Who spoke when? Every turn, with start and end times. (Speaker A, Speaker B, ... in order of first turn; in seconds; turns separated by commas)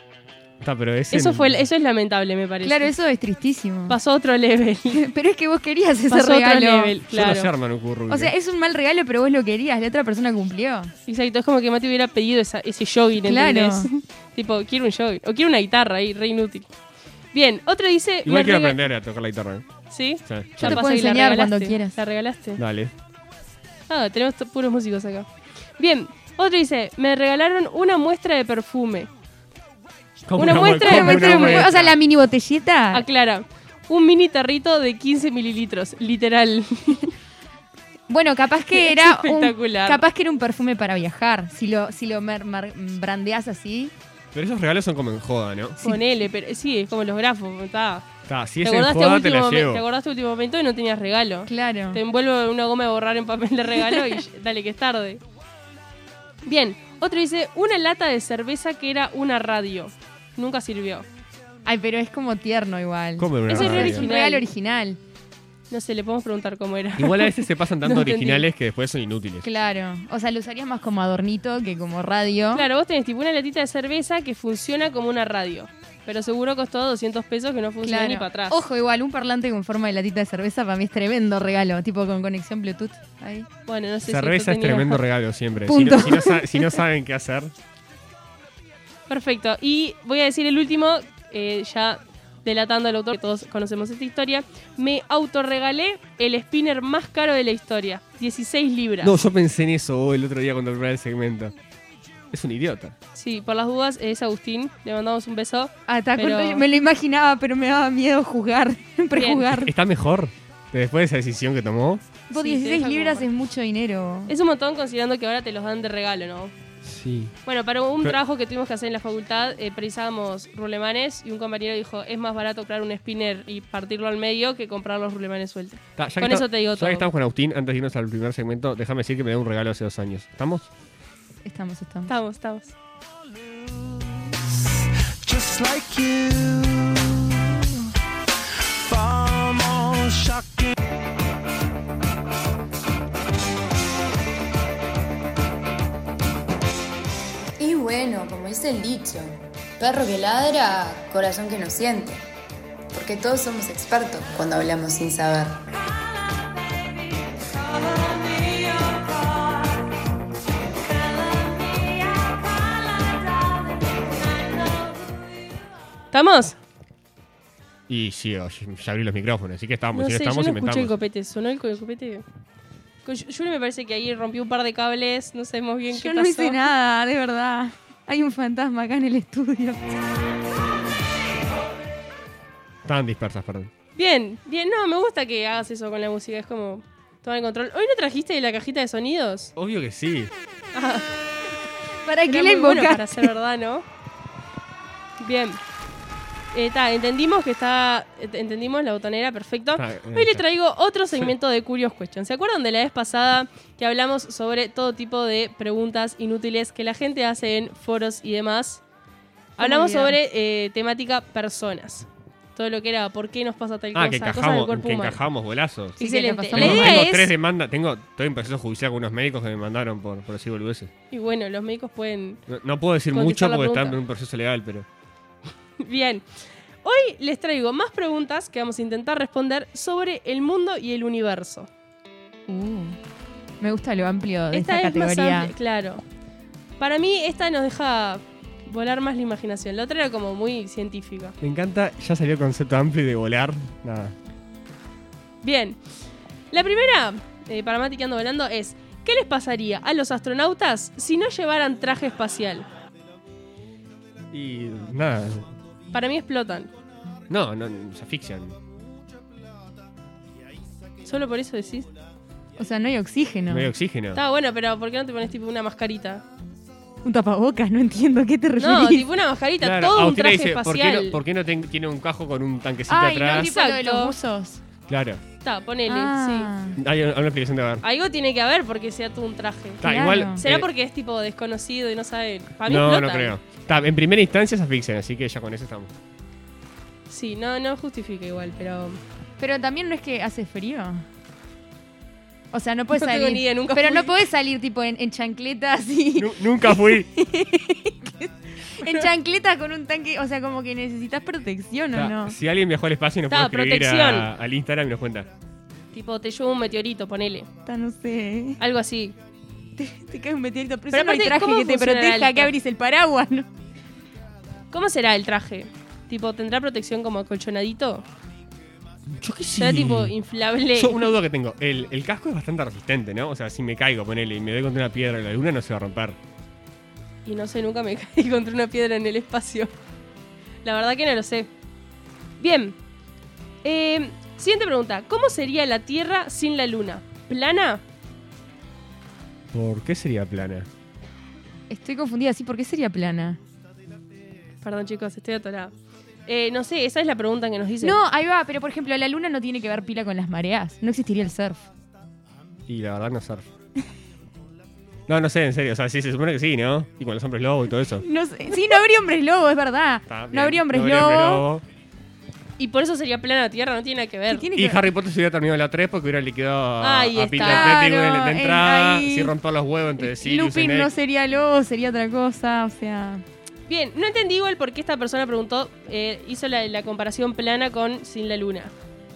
Speaker A: 0.6-1.6, Speaker B: 1.1-2.9, Speaker C: 2.6-4.0, Speaker B: 3.9-5.0, Speaker C: 4.9-7.0, Speaker B: 6.1-7.5, Speaker A: 7.1-8.3, Speaker C: 8.1-10.9, Speaker B: 11.1-16.7, Speaker C: 13.2-13.9, Speaker B: 17.3-18.8, Speaker A: 18.2-19.7, Speaker B: 19.9-22.6, Speaker A: 20.2-20.8, Speaker C: 20.6-21.9, Speaker A: 22.6-22.9, Speaker B: 23.9-29.1, Speaker A: 30.2-32.0, Speaker B: 30.4-31.7, Speaker C: 30.4-33.0, Speaker B: 32.9-37.1, Speaker C: 38.1-43.9, Speaker B: 38.7-40.0, Speaker A: 44.3-45.8, Speaker B: 45.8-48.1, Speaker A: 48.3-49.8, Speaker B: 48.6-55.2, Speaker C: 51.5-52.0, Speaker B: 56.4-61.1, Speaker C: 61.6-65.0, Speaker A: 63.2-64.1, Speaker B: 63.5-64.4, Speaker B: 65.7-68.5, Speaker A: 67.0-69.5, Speaker C: 69.4-72.7, Speaker B: 72.5-78.6, Speaker C: 77.8-83.5, Speaker B: 83.7-85.0, Speaker A: 84.0-87.5, Speaker C: 85.7-86.7, Speaker B: 89.1-99.1, Speaker A: 99.0-101.5, Speaker A: 102.3-103.0, Speaker B: 103.1-106.6, Speaker C: 105.9-109.7, Speaker B: 109.1-109.5, Speaker A: 109.5-112.0, Speaker C: 112.3-114.3, Speaker B: 112.3-113.3, Speaker B: 114.3-116.5, Speaker A: 116.8-117.3, Speaker B: 117.5-127.1, Speaker A: 126.0-130.7, Speaker C: 131.4-132.1, Speaker B: 132.1-132.7, Speaker D: 135.2-137.8, Speaker D: 138.8-140.7, Speaker E: 147.6-152.2, Speaker E: 152.9-155.7, Speaker B: 157.3-159.5, Speaker B: 160.9-164.9, Speaker B: 166.1-166.6, Speaker A: 167.9-170.9, Speaker B: 169.9-172.2, Speaker B: 173.0-176.6, Speaker C: 175.9-179.9, Speaker A: 182.8-183.7, Speaker B: 183.9-189.5, Speaker A: 189.6-190.3, Speaker B: 190.7-191.1, Speaker C: 192.0-193.3, Speaker B: 192.3-193.8, Speaker B: 195.2-195.6, Speaker B: 196.5-208.8, Speaker A: 199.8-200.4, Speaker C: 209.6-210.2, Speaker B: 209.6-215.2, Speaker A: 213.9-216.0, Speaker B: 216.0-217.3, Speaker C: 216.0-217.1, Speaker A: 216.5-220.9, Speaker B: 221.1-222.4, Speaker A: 222.5-224.8, Speaker B: 223.1-224.0, Speaker B: 225.8-226.2, Speaker B: 226.8-231.7, Speaker C: 232.5-233.0, Speaker C: 233.6-235.5, Speaker B: 234.5-236.0, Speaker B: 236.8-241.3, Speaker A: 241.4-244.2, Speaker B: 245.4-245.8, Speaker B: 246.5-252.7, Speaker A: 254.3-255.5, Speaker B: 255.9-256.7, Speaker A: 257.3-258.6, Speaker B: 261.0-261.9, Speaker C: 262.6-263.7, Speaker A: 263.5-264.2, Speaker B: 264.1-266.2, Speaker C: 267.0-269.1, Speaker B: 268.6-271.2, Speaker A: 269.6-273.5, Speaker C: 272.9-274.6, Speaker B: 273.3-274.1, Speaker A: 274.9-275.2, Speaker B: 275.4-276.5, Speaker C: 275.9-276.8, Speaker A: 276.8-277.8, Speaker B: 277.8-279.8, Speaker A: 279.8-280.7, Speaker C: 279.8-280.4, Speaker B: 280.4-283.3, Speaker A: 282.6-285.9, Speaker B: 287.1-289.0, Speaker C: 289.4-291.0, Speaker C: 292.5-302.4, Speaker B: 292.9-294.2, Speaker A: 296.1-297.1, Speaker A: 301.9-305.3, Speaker B: 303.3-304.3, Speaker B: 305.9-307.5, Speaker C: 307.6-308.6, Speaker B: 308.6-309.1, Speaker C: 309.8-313.5, Speaker B: 310.9-312.5, Speaker B: 314.7-318.0, Speaker A: 319.1-320.1, Speaker B: 319.6-321.1, Speaker A: 320.7-326.2, Speaker B: 327.2-329.7, Speaker B: 330.6-331.5, Speaker B: 332.4-332.8, Speaker B: 333.6-337.8, Speaker A: 339.5-340.7, Speaker C: 341.7-343.4, Speaker B: 344.6-345.7, Speaker B: 346.3-348.0, Speaker C: 347.8-351.7, Speaker A: 352.7-353.5, Speaker A: 355.1-358.1, Speaker C: 358.0-361.4, Speaker A: 360.1-361.6, Speaker B: 362.6-364.5, Speaker C: 364.3-364.8, Speaker A: 364.5-370.9, Speaker B: 366.8-367.9, Speaker C: 367.4-369.3, Speaker C: 370.0-373.2, Speaker B: 373.7-378.7